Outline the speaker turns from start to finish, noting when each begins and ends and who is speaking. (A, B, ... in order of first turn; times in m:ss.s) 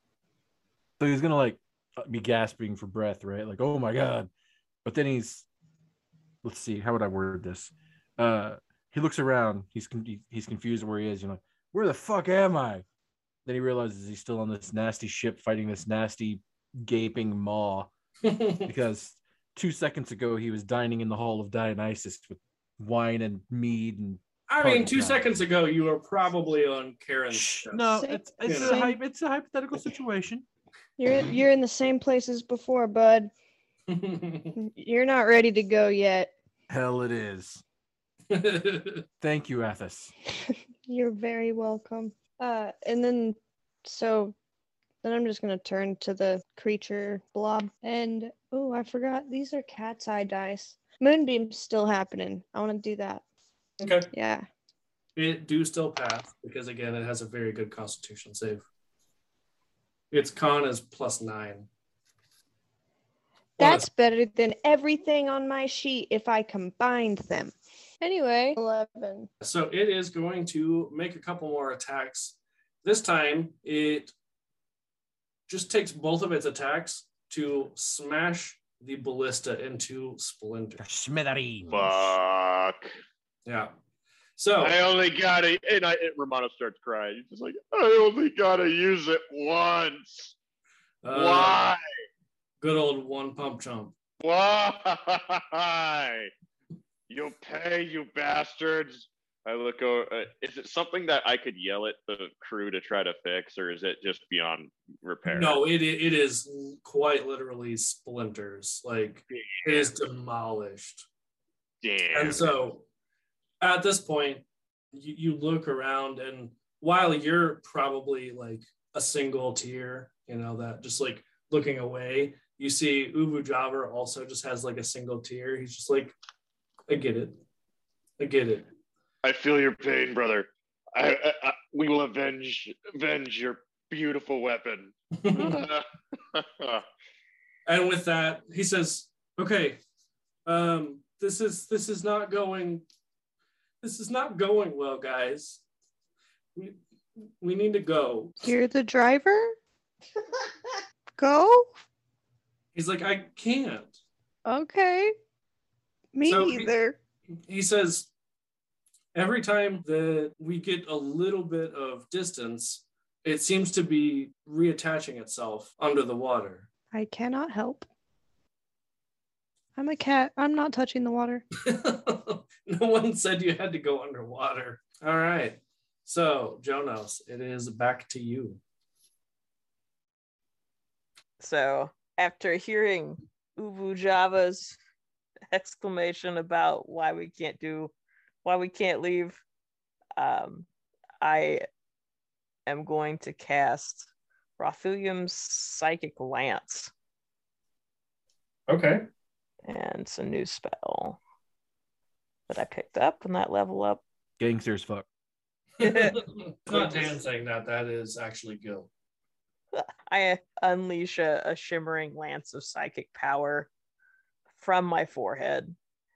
0:01.0-0:04.3 A
0:04.8-0:05.4 A
0:06.4-0:12.8 A
0:13.4-0:17.9 A
0:18.2-0:18.7 B
0:18.6-0:25.4 A
0:24.5-0:28.8 B
0:27.3-0:30.4 A
0:27.9-0:29.0 C
0:31.0-0:33.3 C
0:33.9-0:34.5 B
0:34.5-0:36.3 C
0:36.7-0:37.6 A
0:38.3-0:39.0 B
0:39.2-0:40.1 A
0:40.5-0:44.3 C
0:45.0-0:53.2 C
0:53.8-0:54.1 B
0:54.1-0:54.4 C
0:55.2-0:58.6 B
1:00.1-1:01.7 B
1:03.6-1:09.3 C
1:03.6-1:03.9 B
1:09.4-1:14.1 B
1:15.5-1:20.8 B
1:20.8-1:22.1 A
1:21.7-1:22.9 D
1:23.4-1:23.7 B
1:24.4-1:24.8 B
1:24.6-1:30.3 D
1:31.0-1:31.6 B
1:31.1-1:31.8 D
1:32.6-1:33.9 B
1:34.2-1:36.3 D
1:37.1-1:45.6 D
1:45.2-1:51.0 B
1:49.3-1:49.9 D
1:51.8-1:52.6 D
1:52.1-1:52.8 B
1:53.6-2:06.1 B
2:06.9-2:07.4 B
2:08.2-2:08.7 B
2:09.2-2:16.8 D
2:15.2-2:15.7 B
2:17.6-2:19.8 B
2:20.4-2:22.8 B
2:23.8-2:25.6 B
2:26.5-2:28.5 B
2:28.4-2:29.6 C
2:31.2-2:31.7 C
2:32.7-2:34.0 B
2:34.4-2:35.1 C
2:36.1-2:37.0 C
2:36.3-2:36.7 B
2:37.5-2:38.1 B
2:39.1-2:46.7 B
2:46.9-2:47.9 C
2:49.8-2:51.4 C
2:51.6-2:58.6 B
3:01.4-3:04.8 E
3:05.5-3:09.4 E
3:10.2-3:10.7 E
3:11.2-3:11.6 E
3:12.7-3:16.9 E
3:18.7-3:19.0 B
3:19.7-3:21.2 E
3:22.5-3:24.0 E
3:24.4-3:25.0 A
3:25.8-3:28.9 B
3:25.8-3:26.2 E
3:26.7-3:27.2 E
3:29.7-3:33.7 E
3:34.6-3:35.7 E